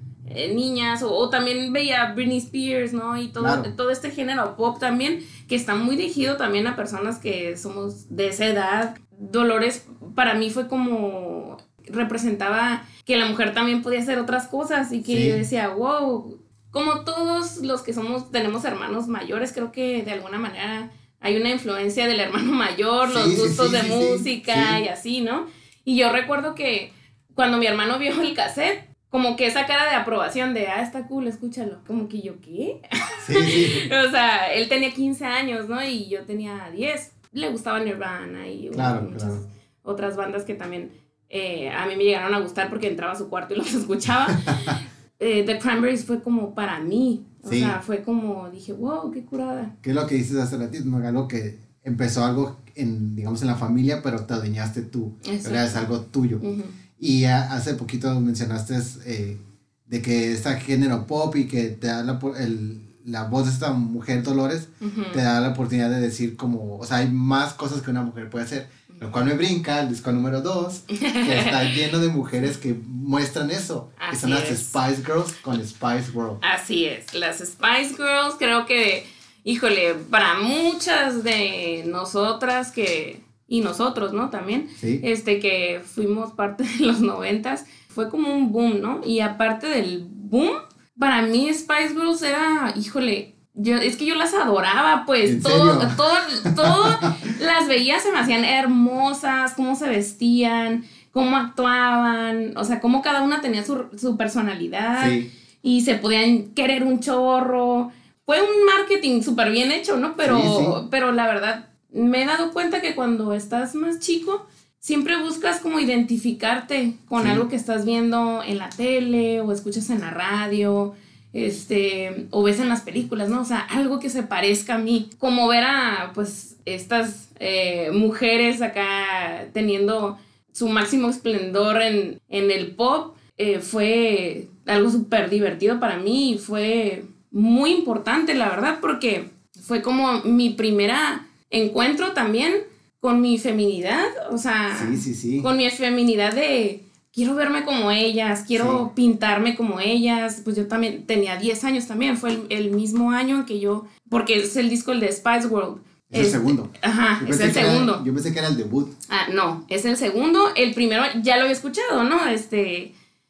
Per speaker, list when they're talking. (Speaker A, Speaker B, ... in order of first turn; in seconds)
Speaker A: 0.3-49.7, 55.2-55.9, 56.4-56.7, 64.8-65.2, 70.9-71.8, 74.0-74.8, 76.4-158.0, 159.1-162.9
Speaker B: 3.4-3.7, 15.1-15.4, 23.1-24.8, 33.2-33.9, 38.7-39.4, 44.5-44.8, 47.5-47.8, 49.8-56.4, 57.0-76.4, 84.8-85.0, 95.2-97.3, 105.0-105.3, 110.2-110.8, 117.2-117.5, 144.7-145.5, 148.5-148.8, 156.1-158.9